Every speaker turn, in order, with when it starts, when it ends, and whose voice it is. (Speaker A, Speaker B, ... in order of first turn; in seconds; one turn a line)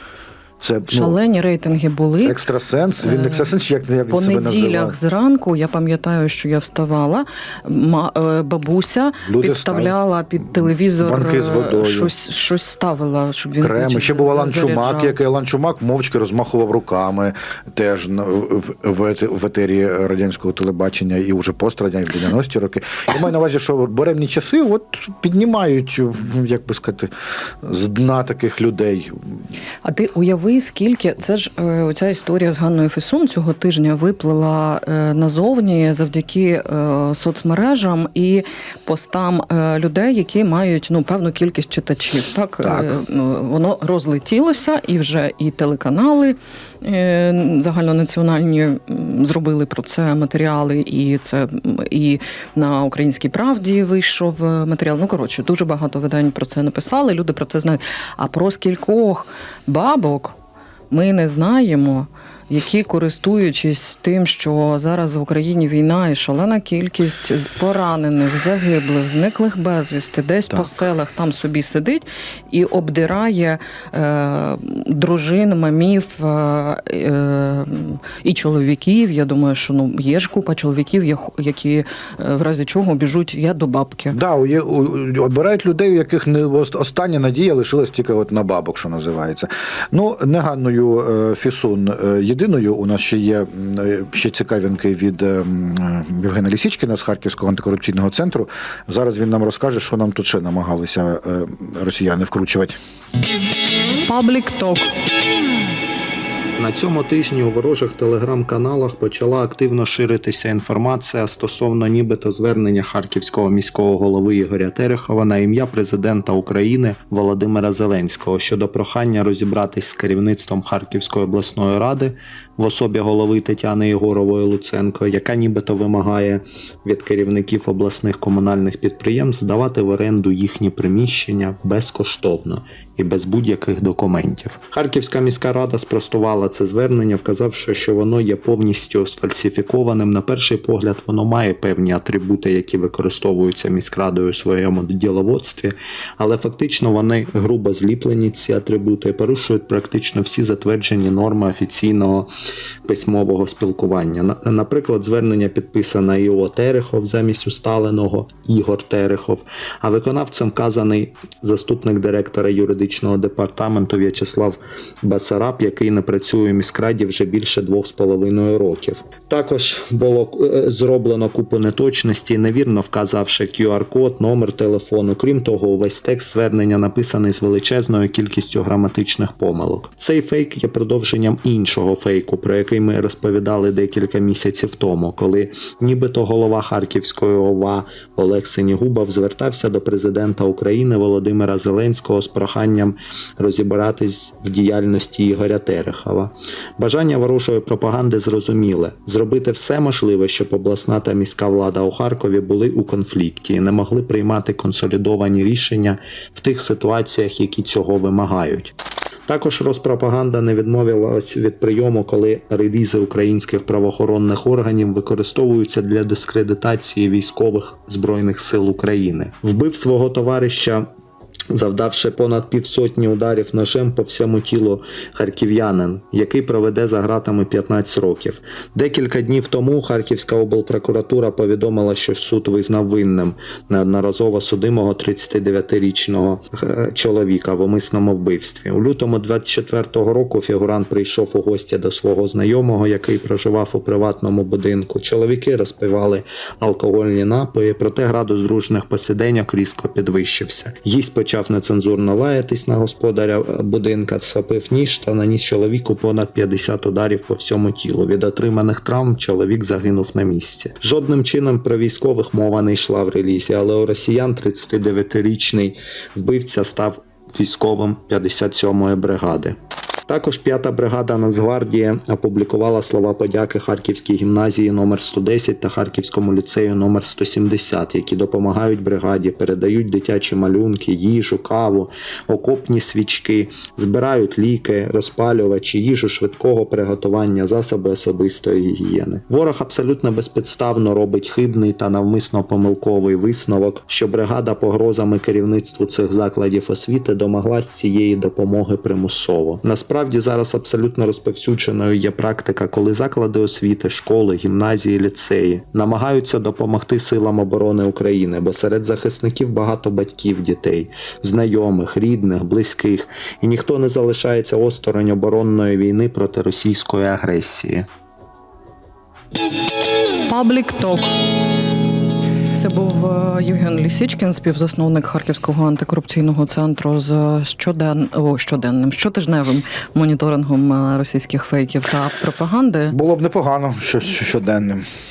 Speaker A: 0.6-1.1
Speaker B: 0.9-2.4
Speaker A: 2.2-5.0
Speaker B: 3.0-3.5
Speaker B: 4.1-15.1
Speaker A: 9.2-9.9
Speaker A: 10.6-12.1
Speaker A: 13.6-27.1
Speaker A: 27.6-29.2
Speaker B: 29.8-60.4
Speaker A: 42.6-43.0
Speaker B: 60.9-84.2
Speaker A: 84.1-102.8
Speaker B: 104.0-104.9
Speaker C: 106.6-152.3
Speaker C: 152.8-208.7
Speaker C: 209.3-220.8
Speaker C: 221.5-269.6
Speaker C: 270.1-317.9
Speaker B: 320.3-321.1
Speaker B: 322.5-332.9
Speaker A: 332.9-334.8